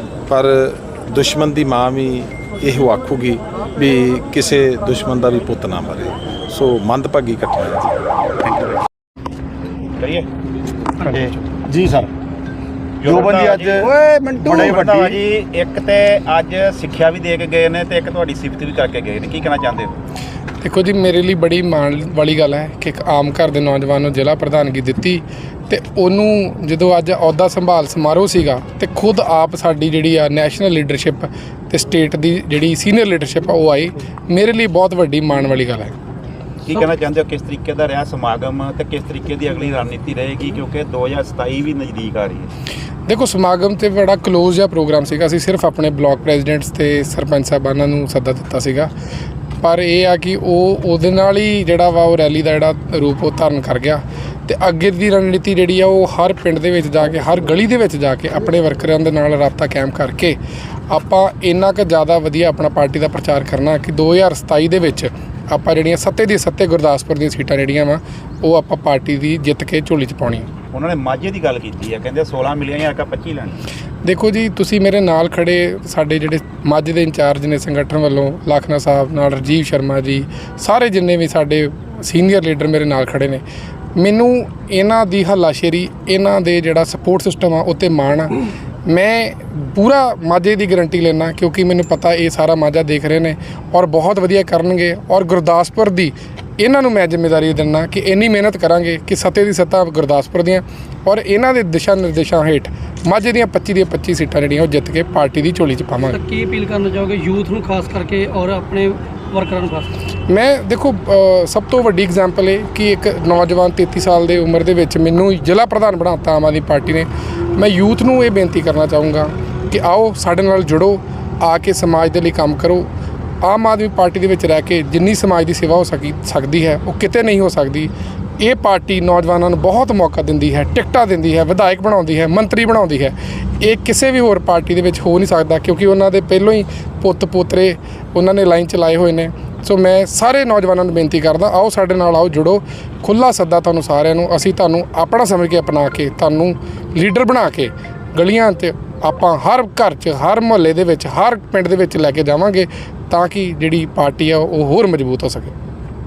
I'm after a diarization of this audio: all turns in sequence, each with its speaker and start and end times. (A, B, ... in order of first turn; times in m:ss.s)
0:00.3-0:07.9 A
0:08.4-0:08.8 B
0:10.0-0:10.3 B
0:11.0-0:11.5 B
0:11.7-0:12.0 C
0:13.0-0:20.0 B
0:13.0-0:15.0 C
0:20.6-0:36.0 D
0:36.6-0:42.5 B
0:43.1-0:48.9 D
0:49.6-1:00.4 D
1:00.9-1:10.5 D
1:10.7-1:13.6 B
1:14.0-1:23.4 D
1:24.0-1:28.3 D
1:28.9-1:46.2 D
1:46.1-1:49.9 E
1:50.3-2:02.8 D
2:03.4-2:35.5 D